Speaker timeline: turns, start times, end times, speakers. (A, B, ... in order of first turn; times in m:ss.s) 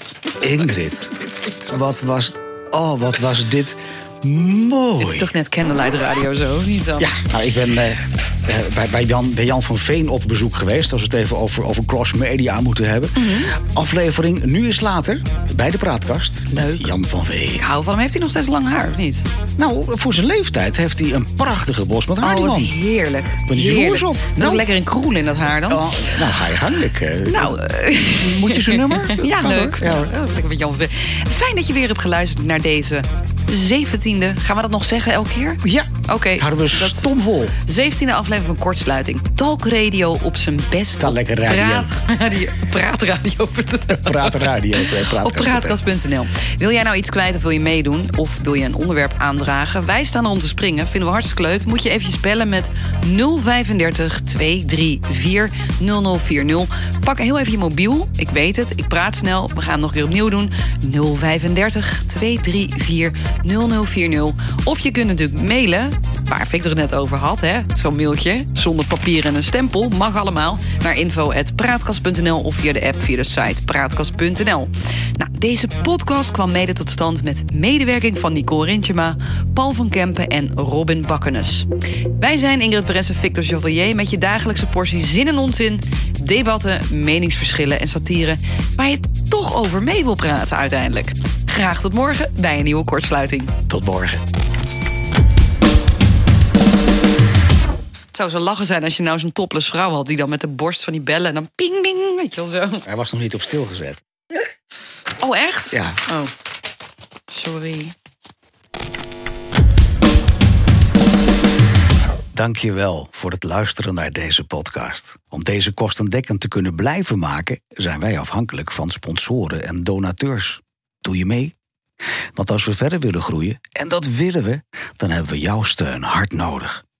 0:00.4-0:05.3 A
0:05.0-0:07.1 B
0:07.0-0:17.6 A
0:13.2-0:13.6 B
0:16.5-0:16.9 B
0:17.5-0:19.3 B
0:19.6-0:22.8 A
0:22.2-0:26.4 B
0:23.4-0:24.7 A
0:25.7-0:27.6 A
0:27.2-1:33.5 B
0:28.1-0:30.1 A
0:35.6-0:37.6 A
0:41.0-0:41.9 A
0:43.9-0:45.8 A
1:33.7-1:34.2 A
1:38.1-1:42.8 B
1:42.8-1:44.0 A
1:45.2-1:46.3 B
1:45.7-1:46.0 A
1:47.3-1:47.9 B
1:52.3-2:01.5 A
2:02.3-2:06.8 A